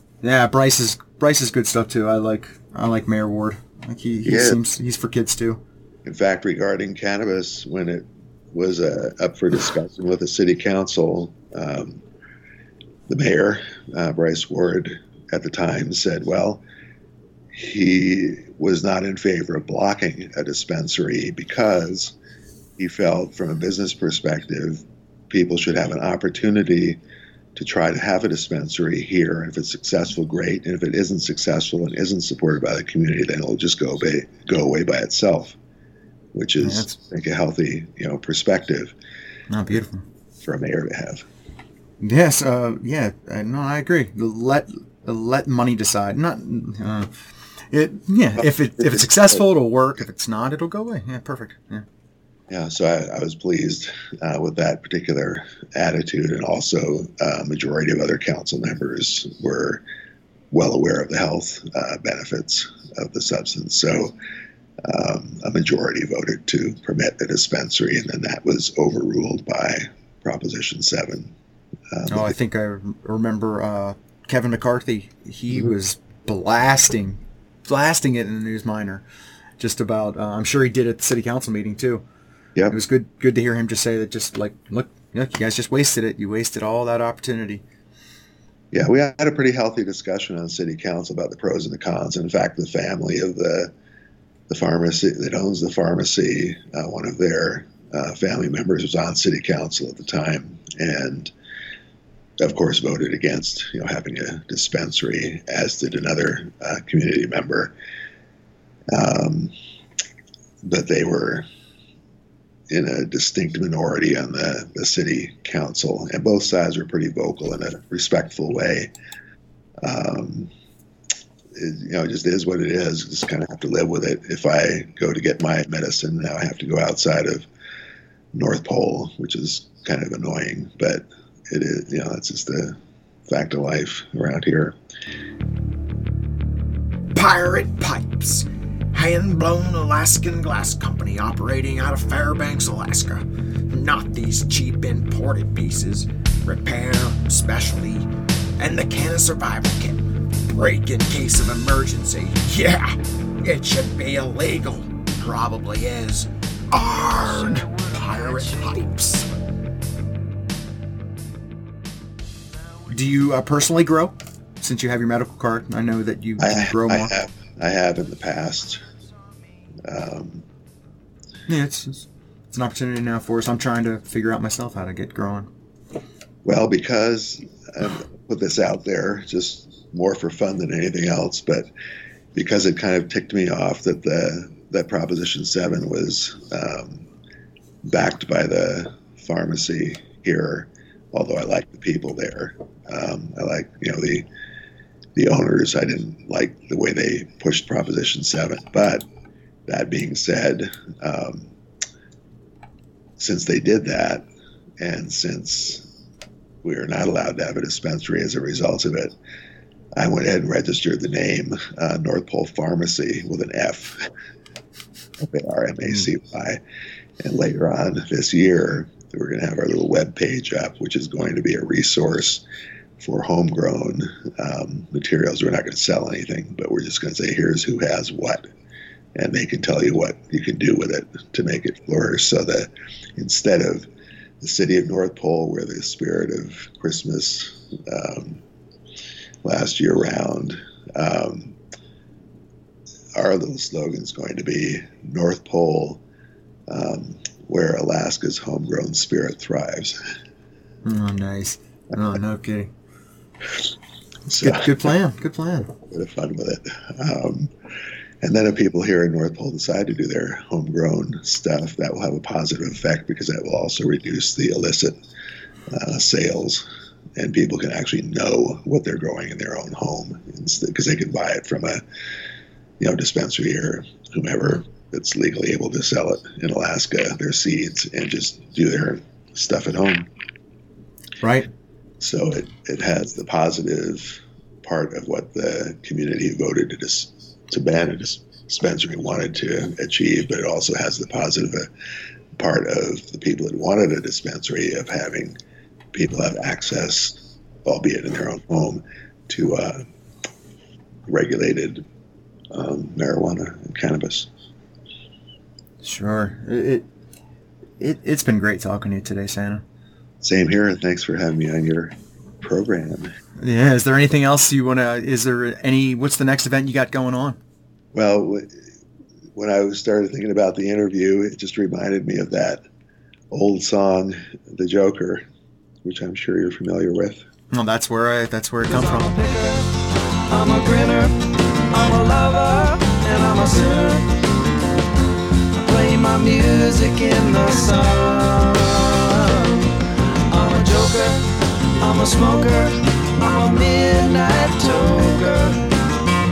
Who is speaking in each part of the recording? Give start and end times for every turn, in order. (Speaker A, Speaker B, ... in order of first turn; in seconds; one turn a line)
Speaker A: 0.2-5.6
Speaker B: 4.2-4.6
Speaker B: 6.0-12.0
Speaker B: 13.1-16.6
Speaker B: 17.5-22.1
Speaker B: 22.8-27.0
Speaker B: 27.6-35.6
Speaker B: 36.3-38.9
Speaker A: 36.6-37.0
Speaker A: 39.5-40.0
Speaker B: 40.4-41.2
Speaker A: 42.0-47.1
Speaker A: 47.7-51.8
Speaker B: 48.4-49.4
Speaker B: 52.5-59.8
Speaker B: 60.5-64.2
Speaker B: 64.8-71.3
Speaker B: 71.9-72.3
Speaker A: 72.1-79.0
Speaker A: 79.6-82.0
Speaker A: 82.7-87.6
Speaker B: 88.7-93.7
Speaker B: 94.5-101.3
Speaker B: 102.4-107.7
Speaker B: 108.9-109.5
Speaker B: 110.6-111.5
Speaker B: 112.7-118.9
Speaker B: 119.8-120.5
Speaker B: 121.5-127.5
Speaker B: 128.3-132.8
Speaker B: 133.3-134.8
Speaker C: 137.1-159.3
Speaker A: 162.9-167.1
Speaker B: 166.4-168.8
Speaker B: 169.8-170.4
Speaker A: 171.5-175.5
Speaker B: 176.4-181.7
Speaker B: 182.3-187.1
Speaker B: 187.8-194.2
Speaker B: 195.1-199.1
Speaker B: 199.7-201.5
Speaker B: 203.2-204.2
Speaker B: 204.8-205.9
Speaker B: 206.6-209.1
Speaker B: 210.0-214.1
Speaker B: 215.2-216.6
Speaker B: 217.2-222.4
Speaker B: 223.0-228.4
Speaker B: 229.1-233.9
Speaker B: 234.4-238.4
Speaker B: 239.4-241.6
Speaker B: 243.2-246.0
Speaker B: 246.7-250.0
Speaker A: 250.8-252.7
Speaker B: 254.3-254.7
Speaker A: 254.4-255.7
Speaker B: 255.8-257.5
Speaker B: 258.2-265.0
Speaker B: 265.7-266.6
Speaker B: 267.2-271.8
Speaker B: 272.8-280.1
Speaker A: 281.2-281.5
Speaker B: 282.0-291.7
Speaker B: 292.4-295.4
Speaker B: 295.9-299.9
Speaker B: 301.1-301.8
Speaker B: 302.5-304.3
Speaker A: 305.8-306.9
Speaker A: 307.8-309.6
Speaker B: 310.2-313.1
Speaker A: 313.4-317.4
Speaker B: 317.9-318.5
Speaker B: 319.3-322.6
Speaker B: 323.3-325.2
Speaker B: 325.8-327.2
Speaker A: 327.5-329.1
Speaker D: 328.6-329.7
Speaker D: 330.3-334.2
Speaker D: 335.6-339.8
Speaker D: 340.3-345.7